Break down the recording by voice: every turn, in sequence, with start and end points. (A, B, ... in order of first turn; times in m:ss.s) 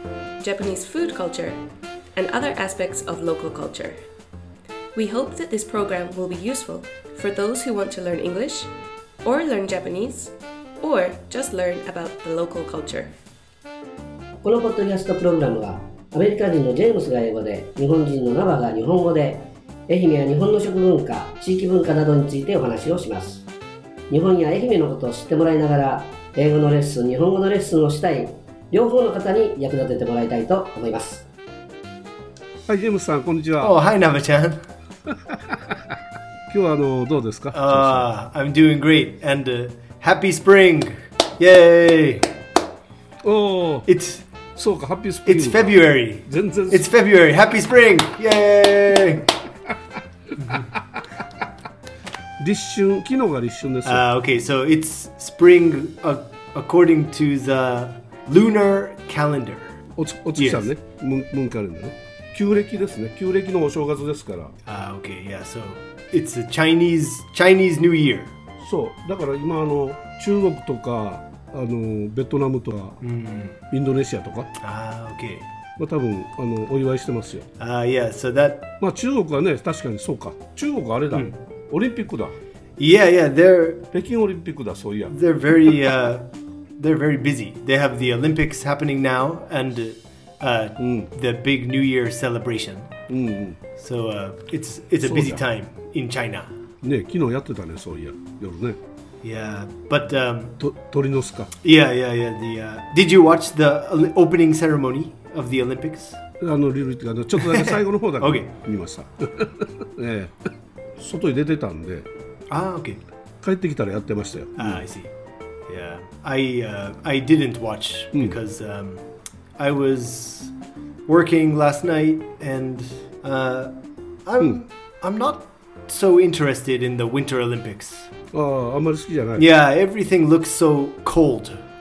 0:00.4-0:01.6 A
0:02.1-0:04.0 A
0:04.9-0:08.7 A
0:09.2-0:13.1 A
0:14.4-0:23.4 B
0:24.1-0:31.2 B
0:32.7-0:33.8 C
0:33.6-0:34.6 D
0:35.1-0:36.0 C
0:36.5-0:38.1 C
0:37.5-0:42.3 D
0:43.2-0:43.9 C
0:43.8-0:44.2 D
0:44.5-0:46.9 C
0:45.2-0:49.4 D
0:50.4-0:50.6 D
0:50.5-0:51.0 C
0:52.4-0:54.0 C
0:53.8-0:59.8 D
1:00.0-1:04.5 C
1:00.4-1:00.7 D
1:04.6-1:08.3 D
1:08.6-1:13.0 C
1:13.0-1:13.6 D
1:13.7-1:14.5 C
1:14.6-1:15.5 D
1:15.8-1:17.5 C
1:17.6-1:18.7 D
1:18.8-1:22.4 C
1:22.8-1:23.9 D
1:23.9-1:25.1 C
1:25.1-1:32.9 D
1:30.8-1:31.1 C
1:33.1-1:33.6 C
1:33.8-1:36.5 D
1:35.0-1:35.4 C
1:36.8-1:38.8 C
1:39.2-1:40.6 D
1:40.6-1:41.5 C
1:41.6-1:46.2 D
1:46.4-1:52.1 C
1:47.4-1:48.5 D
1:52.5-1:53.0 D
1:53.4-1:54.8 C
1:54.6-1:55.1 D
1:55.7-1:59.0 D
1:59.6-2:00.5 D
2:01.1-2:03.7 D
2:04.2-2:08.1 D
2:08.3-2:09.5 C
2:09.4-2:11.6 D